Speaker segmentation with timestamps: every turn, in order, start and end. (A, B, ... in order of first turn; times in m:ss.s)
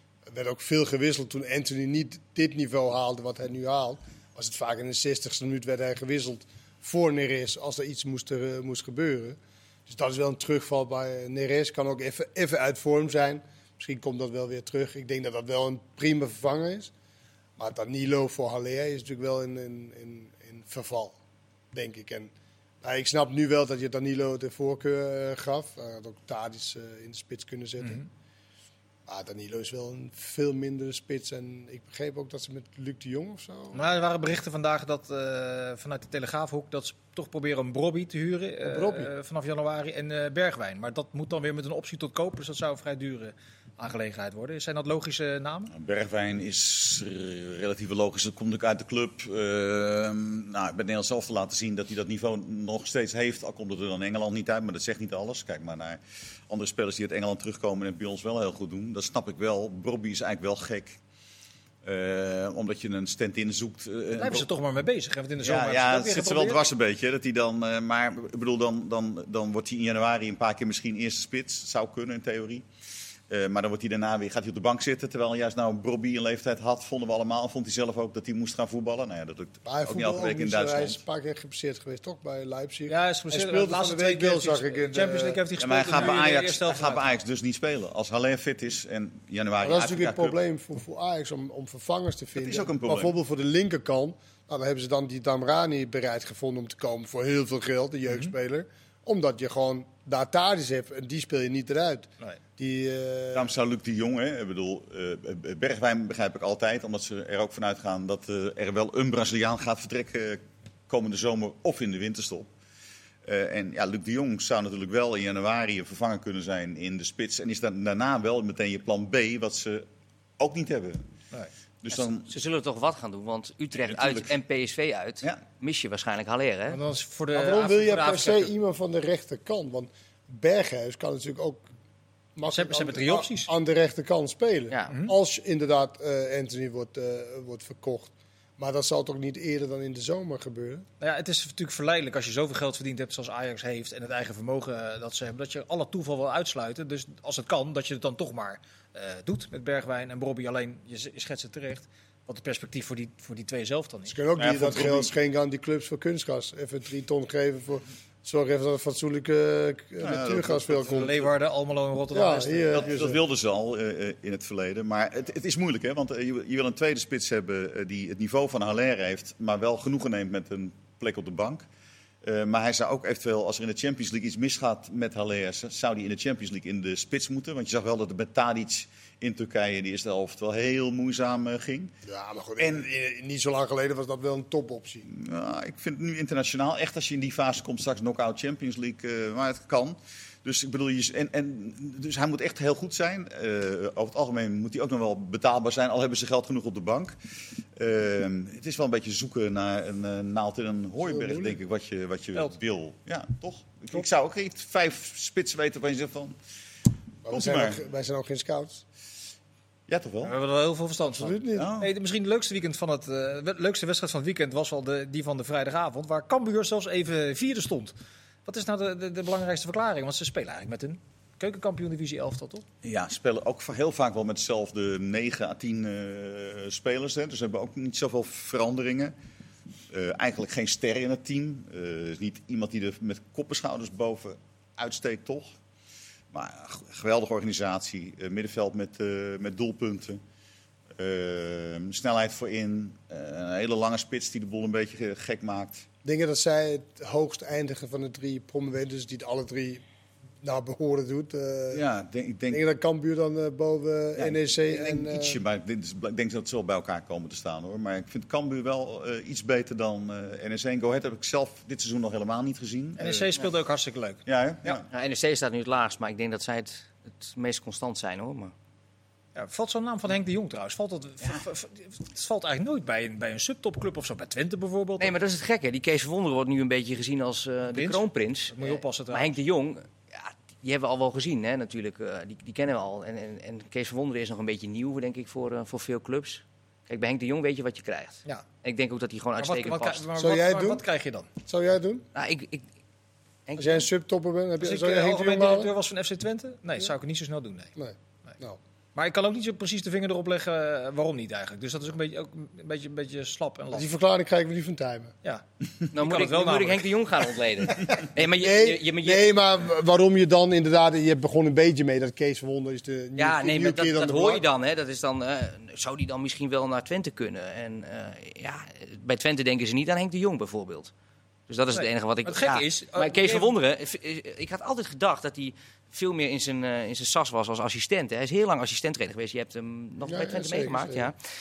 0:00.3-0:16.9 A
0:17.6-0:21.1 A
0:21.7-0:22.3 A
0:22.8-0:28.0 A
0:29.1-0:33.8 A
0:33.7-0:45.7 B
0:38.6-0:39.1 A
0:45.7-1:01.0 C
1:01.8-1:04.5 C
1:04.1-1:06.6 B
1:05.4-1:12.6 C
1:13.3-1:21.0 C
1:19.6-1:25.4 A
1:22.9-1:27.0 B
1:25.6-1:30.4 C
1:29.6-1:43.5 A
1:32.4-1:33.1 C
1:43.3-1:52.5 C
1:53.2-1:59.8 C
2:00.4-2:01.0 C
2:01.8-2:02.3 C
2:01.9-2:06.8 D
2:03.8-2:04.3 C
2:06.7-2:08.5 B
2:07.3-2:11.6 A
2:12.4-2:20.8 A
2:12.5-2:13.5 B
2:21.0-2:34.2 B
2:34.1-2:41.2 A
2:34.4-2:35.1 C
2:40.0-2:41.1 C
2:40.8-2:43.0 B
2:42.1-2:43.2 A
2:42.7-2:51.6 C
2:52.2-3:01.9 C
3:02.0-3:05.1 A
3:02.6-3:02.9 C
3:05.1-3:26.4 C
3:21.0-3:21.6 A
3:27.2-3:28.8 A
3:27.3-3:27.8 C
3:29.9-3:30.3 C
3:30.2-3:37.9 B
3:31.1-3:31.7 A
3:31.6-3:31.9 C
3:38.4-3:42.6 B
3:42.8-3:49.1 C
3:49.9-3:55.6 C
3:56.3-4:00.2 C
4:00.9-4:05.8 C
4:06.0-4:09.8 A
4:10.4-4:11.8 A
4:11.7-4:12.6 C
4:12.5-4:15.4 A
4:14.2-4:23.3 C
4:23.0-4:24.8 B
4:24.2-4:24.9 C
4:24.9-4:28.5 D
4:29.3-4:35.1 B
4:35.0-4:50.1 D
4:37.7-4:39.3 B
4:49.4-4:51.3 B
4:50.2-4:50.8 A
4:51.4-4:52.0 A
4:52.1-4:52.6 D
4:53.5-4:53.9 D
4:53.6-4:55.7 A
4:54.6-4:57.7 B
4:57.8-4:58.6 A
4:59.0-5:03.9 B
5:03.7-5:05.1 A
5:05.2-5:06.9 B
5:05.9-5:09.3 D
5:08.4-5:14.4 A
5:13.2-5:20.9 D
5:21.5-5:31.2 D
5:21.7-5:23.5 B
5:30.0-5:31.1 A